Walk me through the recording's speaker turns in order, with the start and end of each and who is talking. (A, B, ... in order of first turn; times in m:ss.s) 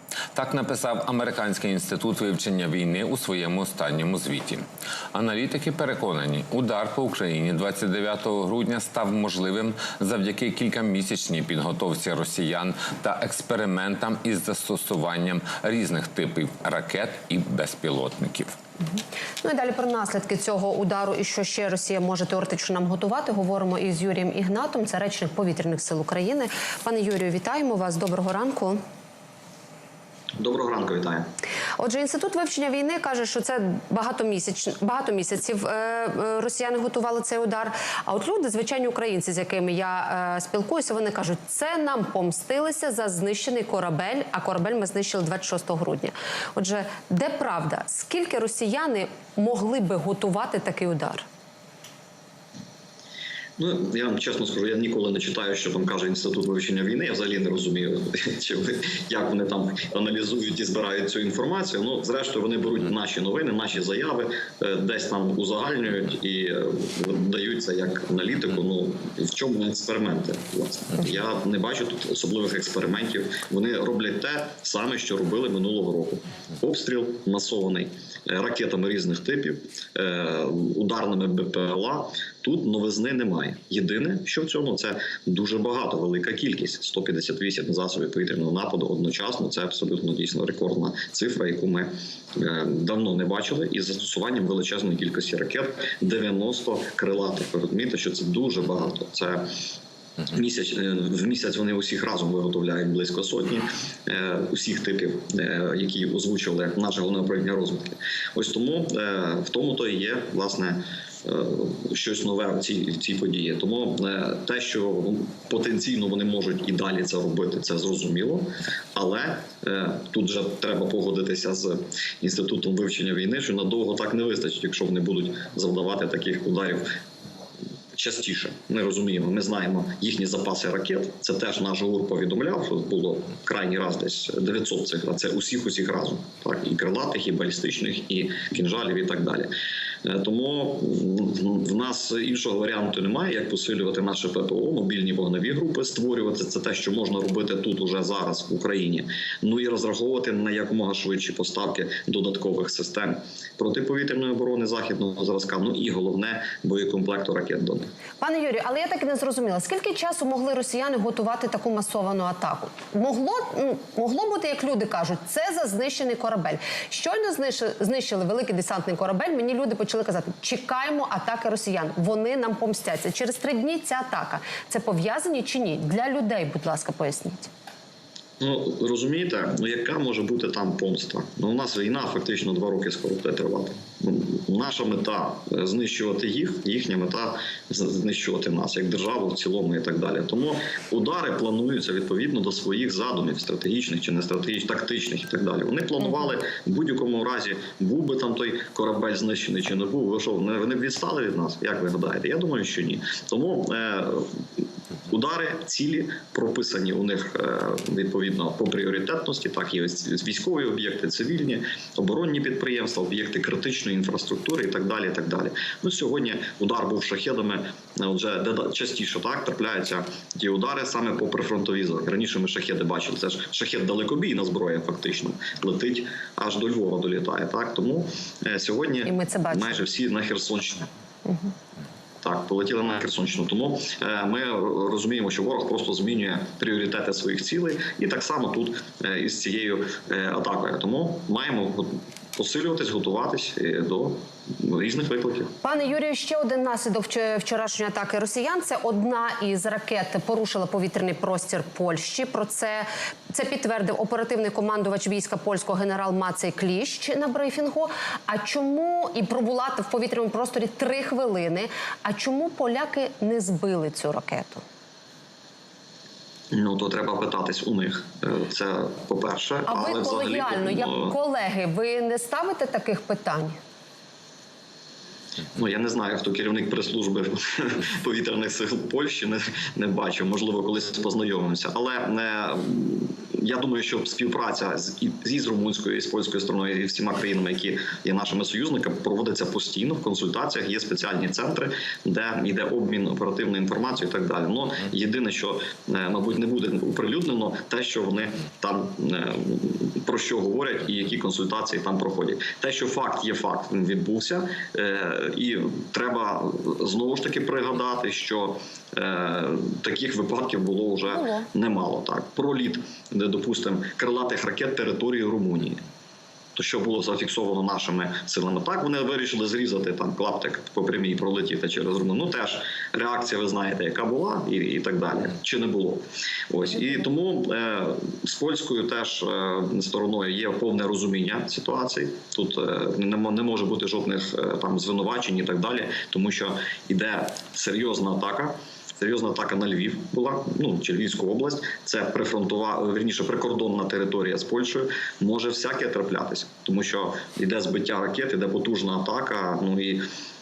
0:00.3-0:18.5 A
0:19.4-0:28.8 B
0:30.4-0:31.3 C
0:31.8-0:51.2 B
0:53.6-1:39.5 C
1:40.3-2:06.9 C
2:07.9-2:19.5 C
2:20.0-2:37.9 C
2:38.2-2:57.5 B
2:58.4-3:24.4 C
3:25.1-3:50.9 C
3:49.0-3:49.8 B
3:52.2-4:05.5 C
4:05.6-4:24.6 B
4:26.5-4:31.2 C
4:29.6-4:33.6 B
4:35.5-5:15.8 C
5:11.1-5:11.5 B
5:16.6-5:50.0 C